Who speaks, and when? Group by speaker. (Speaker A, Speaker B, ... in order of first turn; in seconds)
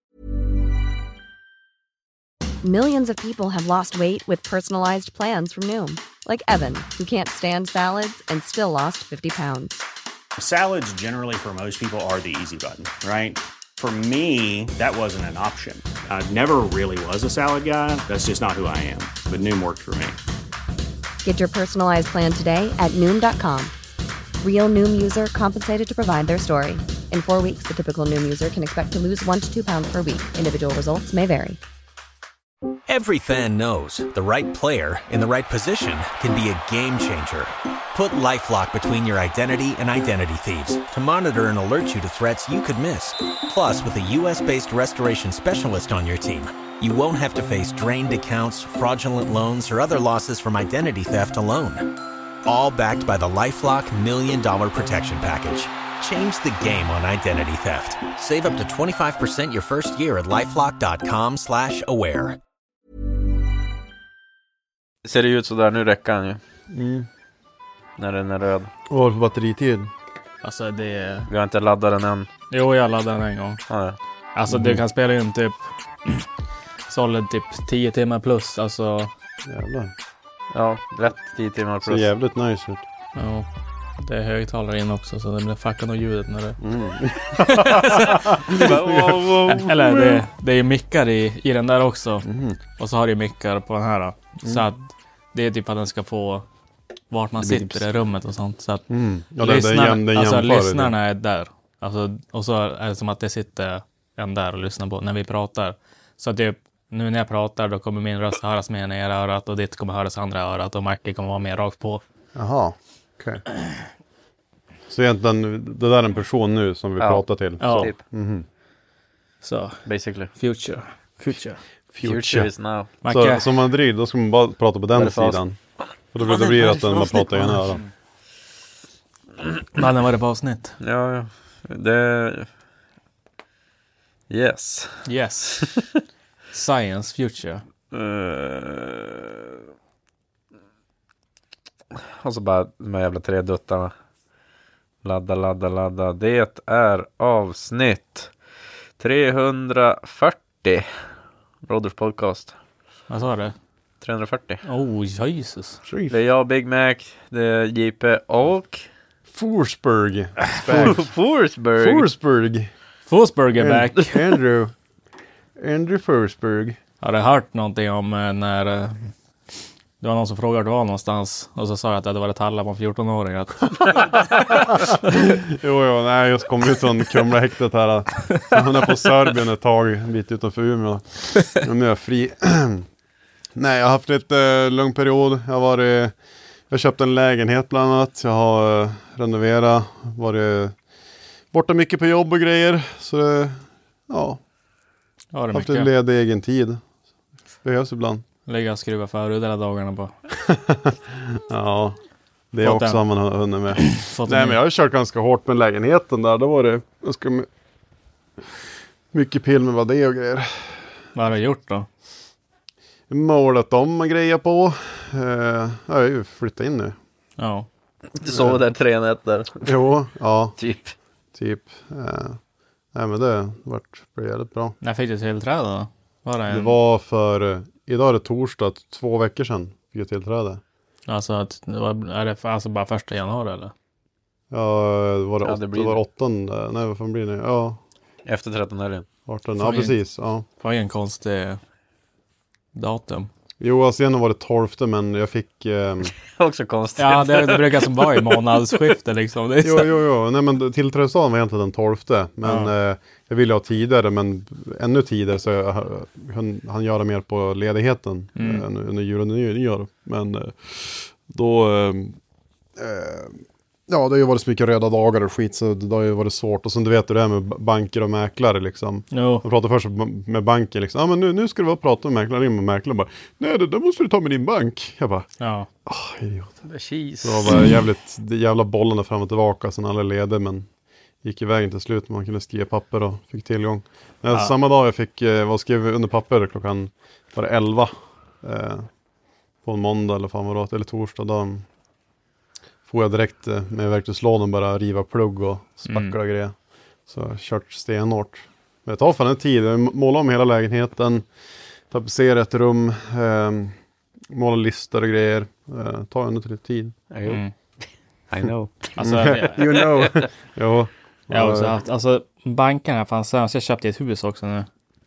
Speaker A: 2.6-9.8, 21.2-23.7, 24.4-31.6
Speaker B: 10.4-20.2
Speaker C: 32.9-62.4
Speaker D: 65.0-66.4, 68.0-68.7, 71.3-72.3, 73.7-74.0, 80.5-82.1, 88.5-89.7, 117.0-118.0, 119.8-120.3, 122.0-122.9, 125.0-125.4, 126.2-127.4, 130.8-132.5, 134.3-135.8, 137.9-139.5, 142.2-143.9, 145.0-148.3, 149.0-150.9, 151.7-152.5, 154.0-154.6, 156.1-158.9, 160.7-162.1, 218.2-219.7, 220.6-220.9, 235.4-236.0, 238.3-239.1, 246.3-248.4, 276.7-277.6, 307.1-308.9
Speaker E: 66.7-67.1, 68.9-69.9, 74.5-74.8, 79.5-79.9, 81.8-82.8, 86.6-90.2, 92.2-92.6, 97.4-97.9, 98.9-100.9, 112.3-113.4, 114.9-118.5, 121.9-122.5, 123.0-125.6, 126.1-127.8, 155.9-156.2, 159.3-161.1, 161.8-162.7, 163.6-164.8, 165.6-166.8, 175.0-182.8, 183.6-186.2, 186.7-190.8, 191.5-194.4, 195.5-196.8, 197.6-198.2, 200.5-202.0, 202.5-207.5, 209.1-210.9, 213.1-217.0, 218.3-218.6, 219.6-220.6, 221.3-222.4, 222.9-224.8, 226.5-230.6, 234.5-237.8, 239.3-240.4, 243.6-246.1, 249.6-262.2, 262.8-275.3, 275.9-276.6, 277.2-280.7, 281.2-288.9, 289.6-291.7, 292.9-296.6, 297.1-301.3, 301.9-303.8, 304.3-307.0, 309.0-311.7
Speaker F: 70.4-71.3, 72.5-73.6, 74.3-76.3, 76.9-79.1, 83.2-83.5, 84.0-86.6, 87.5-88.3, 89.5-96.5, 97.1-98.9, 99.4-112.0, 117.6-117.9, 119.4-119.8, 120.3-121.6, 123.0-123.5, 129.8-130.8, 135.1-135.7, 136.5-137.6, 153.1-153.5, 154.7-155.8, 163.1-164.2, 167.0-169.1, 170.0-175.1, 195.3-195.9, 198.5-200.1, 202.6-203.0, 203.8-204.6, 211.2-211.9, 217.4-217.7, 224.8-226.8, 231.1-233.7, 239.6-239.9, 240.6-241.6, 242.7-243.3, 247.0-249.9, 252.4-252.7, 258.4-258.6, 269.1-269.4, 275.4-275.7, 295.9-296.2, 307.3-307.5, 309.0-309.7, 311.3-314.7